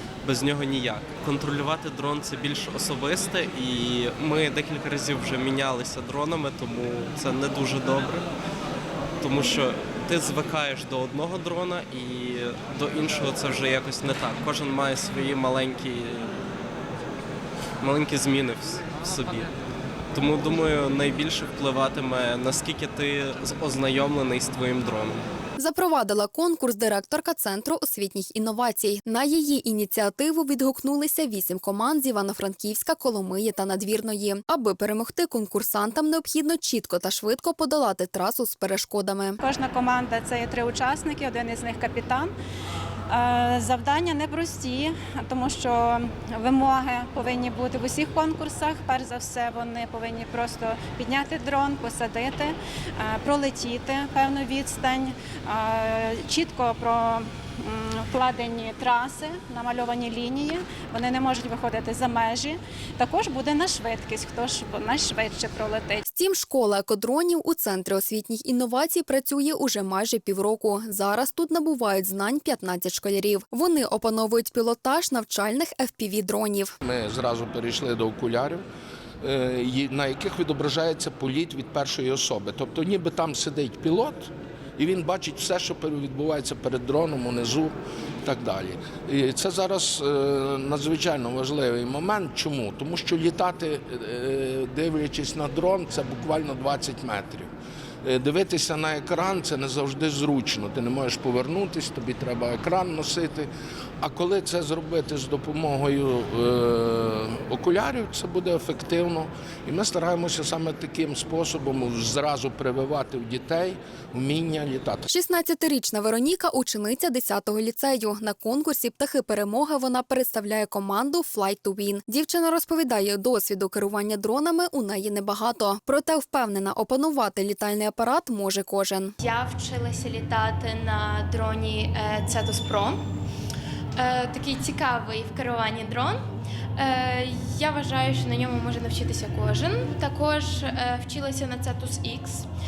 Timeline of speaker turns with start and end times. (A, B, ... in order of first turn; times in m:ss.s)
0:00.2-0:08.3 A
0:09.2-0:16.4 A
0:17.8-0:19.5 A
0:20.1-0:25.3 A
0:25.6-0:39.4 B
0:39.4-0:42.3 C
0:43.1-1:06.0 C
1:06.1-1:16.7 B
1:16.8-1:18.6 D
1:19.2-1:37.5 D
1:38.0-1:43.5 D
1:44.0-1:55.0 D
1:55.1-2:09.2 B
2:09.2-2:13.0 E
2:14.0-2:16.2 E
2:16.8-2:22.5 E